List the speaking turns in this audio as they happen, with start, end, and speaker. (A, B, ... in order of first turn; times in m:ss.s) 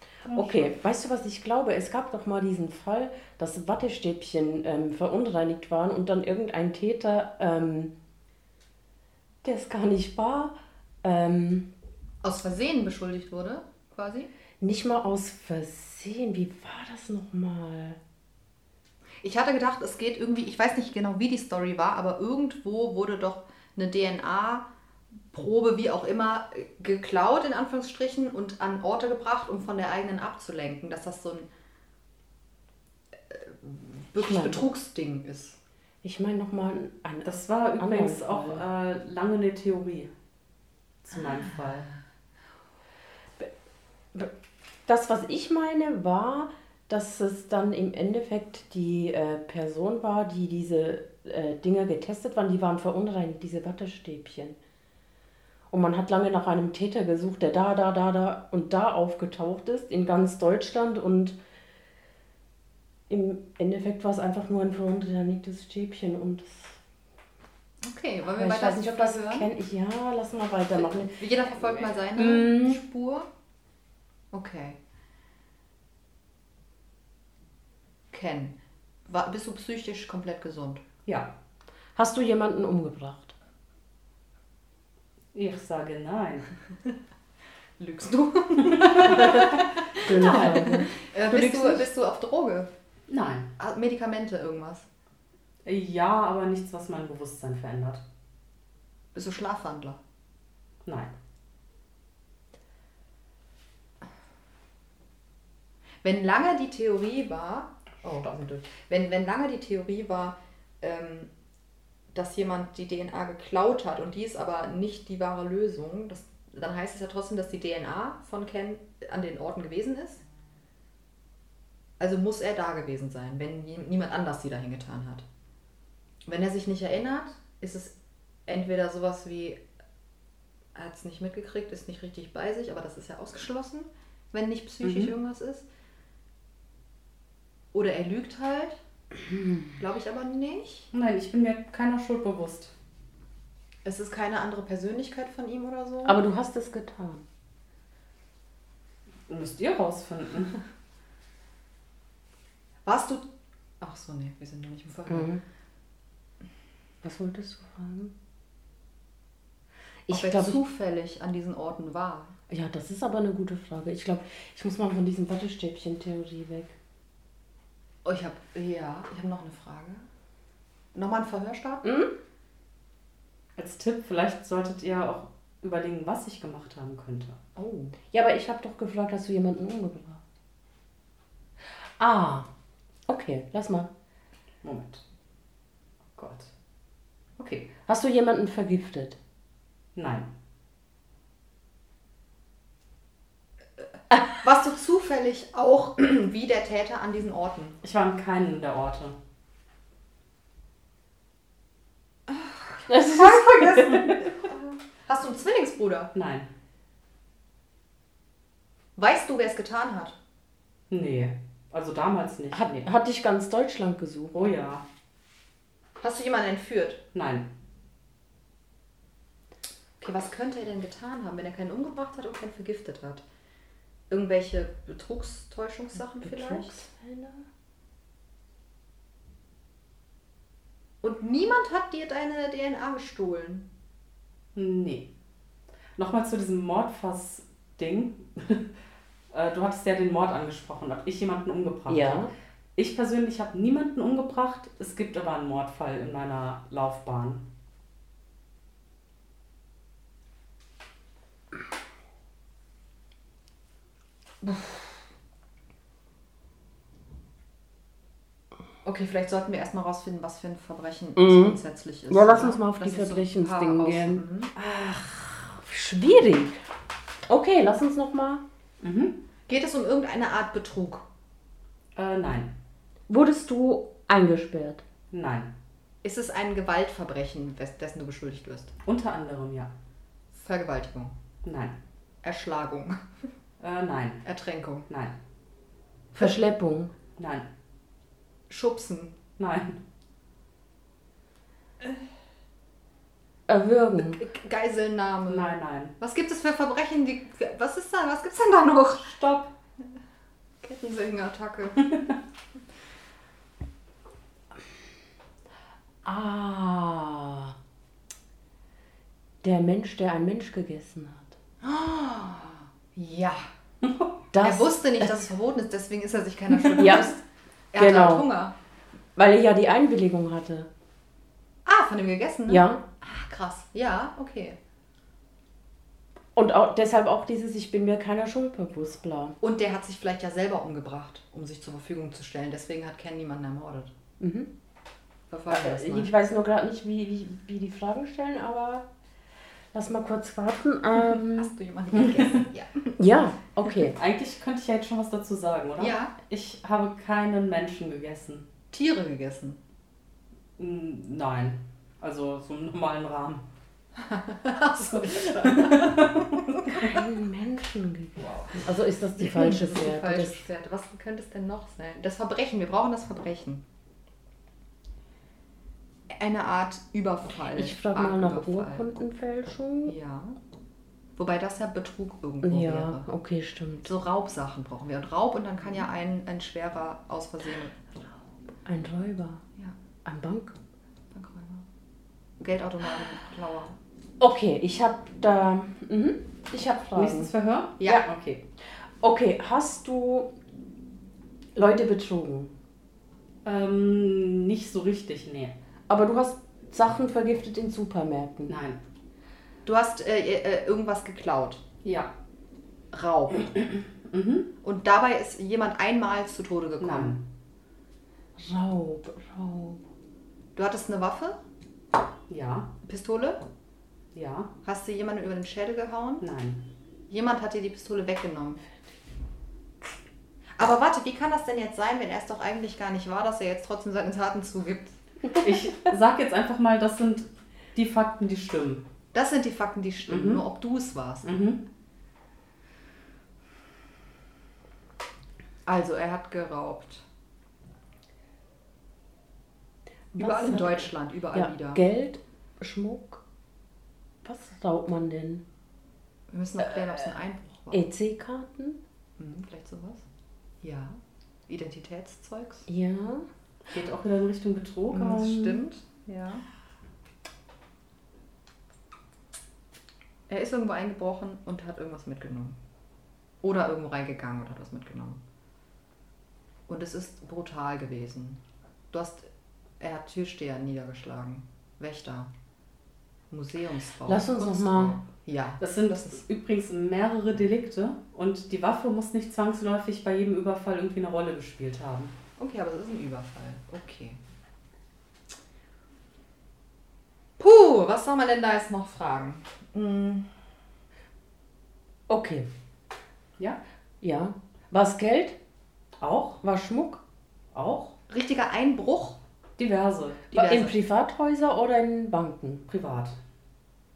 0:00.3-0:00.7 A
0:00.3-0:07.9 B
0:09.4-0:11.7 B
0:12.2-0:14.3 C
0:14.6-0:18.0 B
0:19.2-0:24.7 C
0:25.3-0:31.5 C
0:33.3-0:35.6 C
0:34.2-0:34.6 B
0:36.0-0:38.6 B
0:37.2-0:40.1 A
0:41.0-0:41.9 A
0:44.9-0:54.6 B
0:55.7-1:01.4 B
1:03.1-1:06.8 B
1:07.8-1:09.5 C
1:08.3-1:11.2 B
1:10.7-1:13.3 C
1:12.1-1:12.8 B
1:14.3-1:14.8 C
1:18.1-1:20.8 C
1:21.0-1:21.3 A
1:22.0-1:23.3 B
1:25.3-1:26.5 A
1:27.8-1:32.7 C
1:28.6-1:30.8 A
1:30.0-1:31.6 B
1:31.5-1:31.7 A
1:33.1-1:33.5 A
1:33.6-1:34.9 C
1:35.6-1:38.0 A
1:39.1-1:40.0 C
1:40.8-1:41.1 A
1:46.0-1:51.3 C
1:52.1-2:00.2 C
2:02.0-2:05.2 C
2:06.2-2:07.9 C
2:08.5-2:09.6 C
2:10.7-2:15.7 C
2:14.8-2:15.1 A
2:17.7-2:18.8 C
2:19.8-2:20.9 C
2:20.9-2:22.7 A
2:23.8-2:26.2 C
2:26.0-2:27.2 B
2:29.3-2:30.6 A
2:32.8-2:33.3 C
2:33.8-2:35.3 C
2:35.1-2:35.4 B
2:37.0-2:38.1 B
2:40.1-2:40.6 B
2:40.1-2:42.3 C
2:42.5-2:46.8 B
2:48.0-2:50.0 C
2:50.9-2:51.8 C
2:51.8-2:52.1 B
2:53.6-2:57.4 A
2:57.6-2:57.9 C
2:58.1-3:00.2 B
3:02.0-3:02.5 B
3:03.1-3:03.9 B
3:04.6-3:05.0 A
3:06.2-3:06.5 A
3:07.4-3:07.7 A
3:07.8-3:09.2 B
3:09.9-3:10.3 A
3:14.2-3:17.8 C
3:17.8-3:19.2 A
3:22.3-3:26.1 C
3:22.9-3:24.2 B
3:26.1-3:26.5 A
3:29.0-3:30.2 C
3:30.9-3:32.9 A
3:32.5-3:34.5 B
3:34.3-3:34.8 A
3:36.0-3:37.0 C
3:37.1-3:37.5 A
3:40.0-3:43.2 C
3:44.1-3:46.8 C
3:46.2-3:47.4 B
3:51.0-3:53.7 C
3:54.5-3:55.1 A
3:56.0-3:58.7 A
3:59.3-4:07.4 A
4:01.9-4:02.3 B
4:18.8-4:24.5 C
4:21.2-4:21.6 B
4:22.1-4:26.6 B
4:27.3-4:28.4 B
4:28.8-4:29.2 A
4:29.5-4:31.0 C
4:31.9-4:32.5 A
4:33.1-4:34.8 B
4:35.1-4:35.5 A
4:36.0-4:38.7 C
4:38.8-4:39.7 A
4:40.3-4:41.2 C
4:41.4-4:41.8 A
4:42.2-4:43.0 C
4:43.6-4:44.2 A
4:44.2-4:44.9 C
4:44.9-4:45.2 A
4:46.1-4:46.9 B
4:47.2-4:47.5 A
4:48.5-4:49.2 C
4:49.4-4:49.8 A
4:53.5-4:54.2 B
4:54.0-4:59.1 C
4:55.3-4:55.9 A
4:59.0-4:59.5 A
5:00.6-5:01.8 C
5:01.8-5:02.2 A
5:06.0-5:07.5 B
5:09.4-5:11.4 B
5:11.6-5:13.4 C
5:13.8-5:14.1 A
5:14.3-5:15.2 B
5:14.4-5:17.2 C
5:16.8-5:17.2 B
5:17.7-5:18.5 C
5:17.8-5:18.3 B
5:19.2-5:20.7 B
5:21.6-5:24.6 C
5:22.5-5:22.8 B
5:26.4-5:29.4 B
5:29.4-5:33.9 C
5:34.2-5:34.5 B
5:35.3-5:36.1 C
5:35.5-5:38.8 B
5:39.7-5:41.5 B
5:41.2-5:43.0 C
5:41.9-5:42.4 A
5:43.0-5:44.0 B
5:43.9-5:48.4 A
5:45.8-5:46.1 C
5:48.7-5:49.6 C
5:50.6-5:53.4 A
5:54.0-5:56.6 C
5:55.1-5:56.9 A
5:56.7-6:00.4 B
5:59.2-6:03.6 C
6:06.1-6:08.9 C
6:07.5-6:09.9 B
6:09.8-6:10.4 C
6:11.2-6:13.0 C
6:12.4-6:13.9 B
6:13.8-6:17.8 C
6:18.6-6:19.4 B
6:20.0-6:20.6 B
6:21.1-6:21.6 C
6:22.4-6:23.8 C
6:24.2-6:27.3 B
6:26.9-6:28.4 A
6:27.8-6:28.0 C
6:29.0-6:30.3 B
6:31.5-6:32.5 B
6:33.4-6:35.5 A
6:35.9-6:38.6 B
6:38.5-6:38.8 A
6:39.6-6:41.6 C
6:41.8-6:42.1 A
6:42.9-6:43.5 C
6:43.5-6:44.5 A
6:44.6-6:47.2 C
6:46.8-6:47.2 A
6:48.4-6:49.8 B
6:50.5-6:51.4 C
6:52.3-6:52.7 A
6:52.8-6:53.4 C
6:54.1-6:54.5 A
6:54.6-6:56.2 C
6:56.2-6:56.7 A
6:57.1-6:58.6 C
7:00.6-7:05.0 C
7:05.4-7:08.8 A
7:09.1-7:11.4 C
7:10.1-7:10.4 A
7:11.2-7:11.6 A
7:15.6-7:17.0 C
7:20.1-7:23.2 B
7:20.2-7:21.8 C
7:24.2-7:25.4 B
7:26.3-7:27.8 C
7:27.7-7:28.8 B
7:29.2-7:30.0 C
7:30.6-7:32.7 C
7:32.7-7:33.2 B
7:33.7-7:35.6 A
7:34.9-7:36.4 C
7:40.3-7:42.6 C
7:43.4-7:45.2 C
7:46.7-7:52.3 C
7:53.3-7:56.2 C
7:54.1-7:55.0 B
7:55.6-8:02.1 A
8:02.4-8:04.2 C
8:07.4-8:10.3 C
8:12.1-8:12.5 B
8:14.0-8:15.4 B
8:16.0-8:16.4 A
8:16.4-8:17.0 B
8:17.5-8:18.0 A
8:18.1-8:19.2 C
8:19.6-8:20.3 A
8:20.3-8:22.6 B
8:20.3-8:20.8 C
8:22.7-8:23.2 A